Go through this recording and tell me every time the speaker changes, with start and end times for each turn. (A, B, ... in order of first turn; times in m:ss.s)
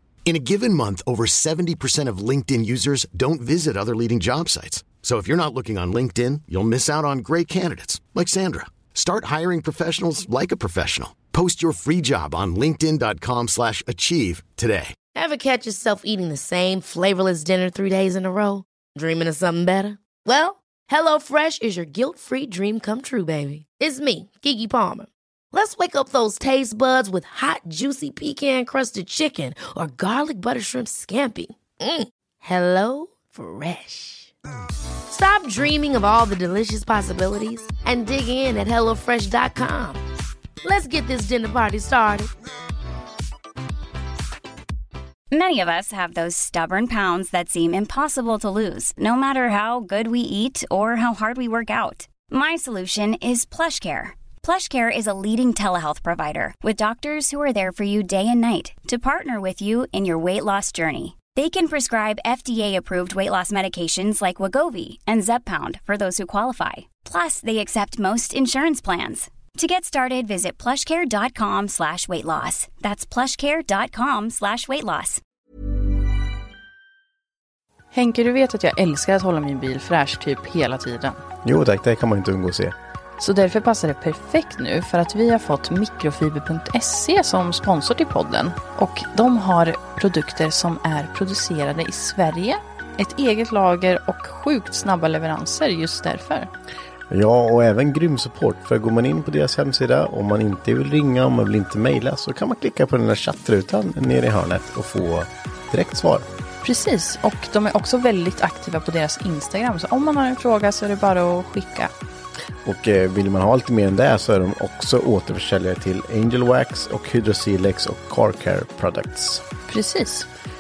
0:00.3-0:15.0 A
0:15.1-0:34.3 B
0:35.1-0:40.0 B
0:40.6-0:42.3 B
0:45.3-1:15.2 C
1:17.9-1:21.2 D
1:21.4-1:22.8 E
1:23.2-1:36.5 D
1:37.1-1:46.3 E
1:46.6-1:51.9 D
1:52.6-1:59.5 E
1:59.7-2:00.3 D